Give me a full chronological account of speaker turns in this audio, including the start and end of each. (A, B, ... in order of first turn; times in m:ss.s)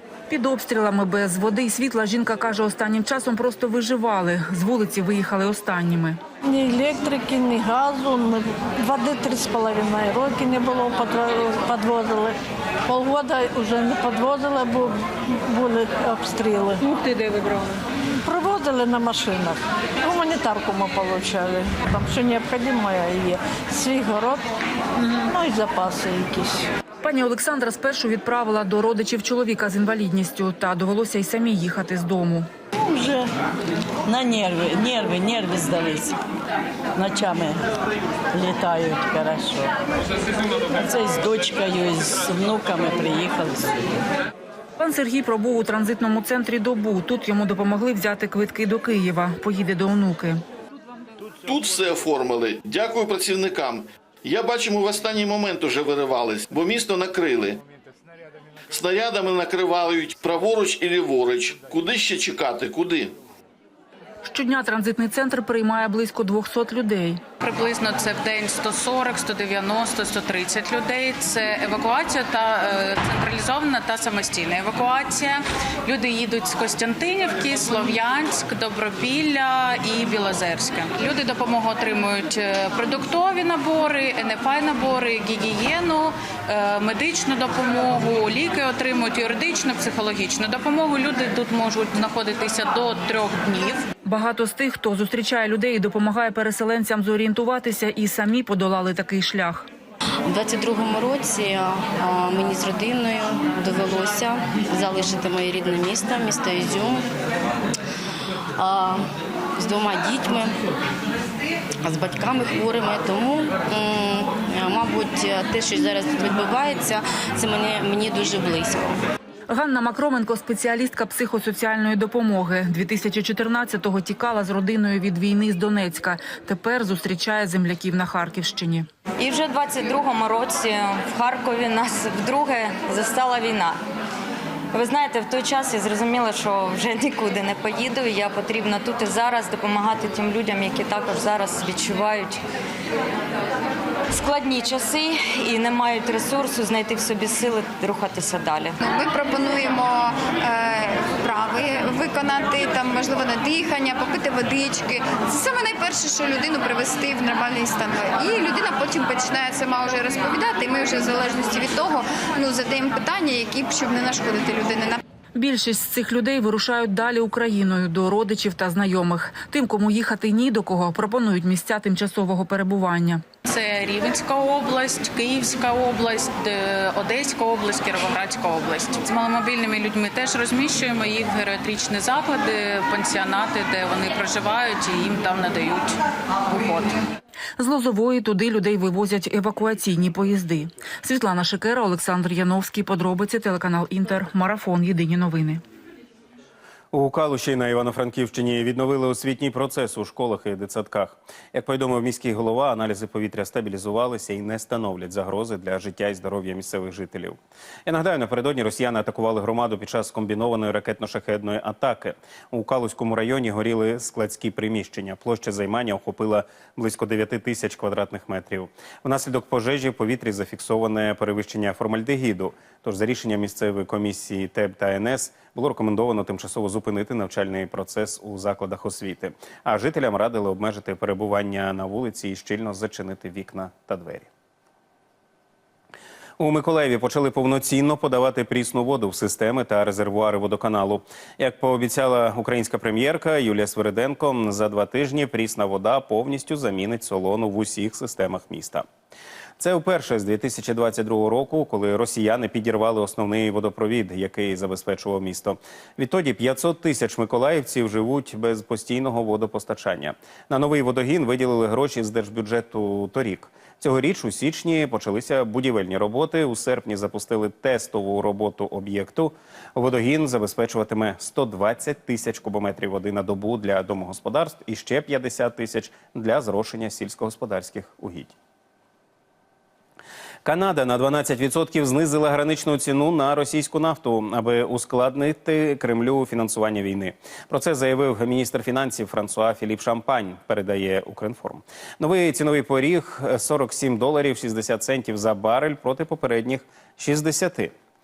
0:00.3-0:06.2 A
0:06.4-0:26.7 B
0:27.0-0:32.5 A
0:32.9-0:33.2 C
0:34.1-0:36.1 C
0:37.0-0:37.6 C
0:38.3-0:39.7 C
0:40.8-0:43.6 C
0:44.8-0:50.4 A
0:51.4-0:57.6 D
0:58.7-1:03.2 D
1:04.2-1:07.2 A
1:07.4-1:33.8 E
1:34.0-1:39.7 A
1:40.2-1:47.1 F
1:48.6-1:50.6 F
1:51.8-1:59.0 F
1:59.5-2:08.9 A
2:09.2-2:13.8 G
2:14.7-2:22.4 G
2:24.1-2:28.8 G
2:28.8-2:45.0 H
2:45.4-2:53.2 A
2:53.5-3:07.0 E
3:07.6-3:15.6 A
3:16.9-3:54.3 I
3:56.4-4:08.8 I
4:09.6-4:38.3 I
4:40.4-4:57.7 I